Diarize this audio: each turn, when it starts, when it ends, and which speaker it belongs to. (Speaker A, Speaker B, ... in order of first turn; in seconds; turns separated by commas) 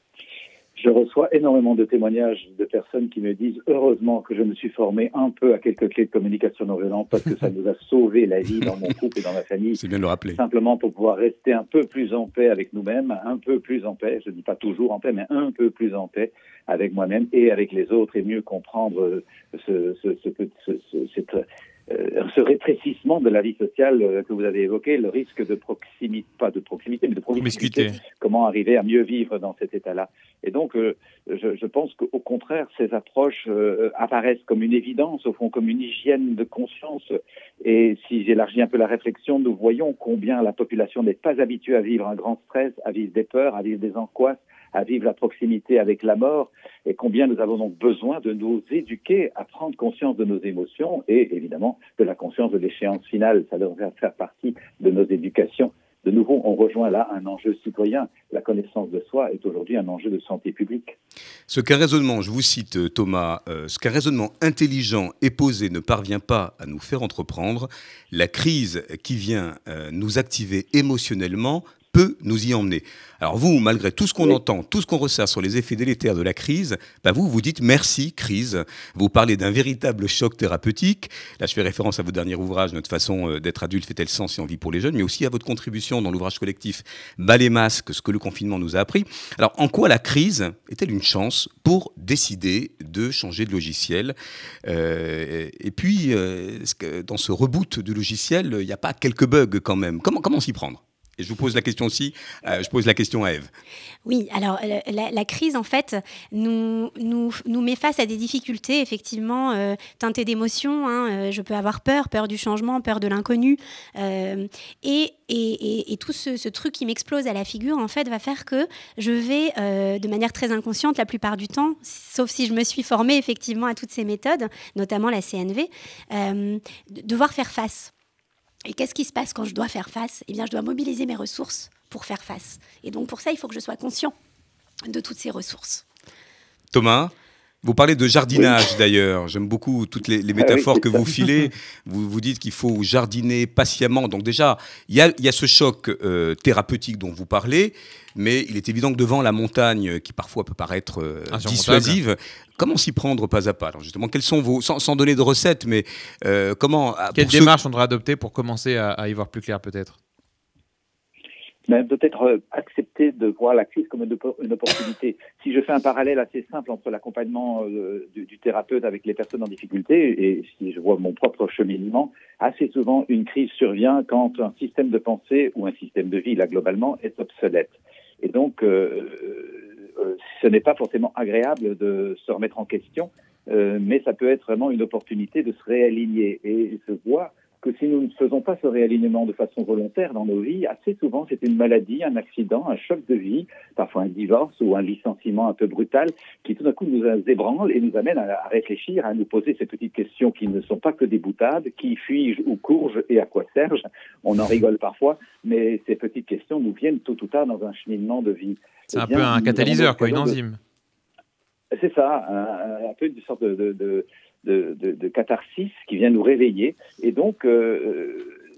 Speaker A: 0.8-9.8, Speaker B: 9.8-10.4, Speaker A: 10.3-61.0, Speaker C: 27.4-28.0, Speaker B: 61.5-103.5, Speaker D: 104.1-127.9, Speaker D: 128.7-134.2, Speaker D: 134.9-135.8, Speaker B: 136.7-157.5, Speaker C: 151.3-152.0, Speaker C: 157.2-160.0, Speaker A: 161.7-210.4, Speaker C: 208.9-210.6, Speaker A: 211.7-218.3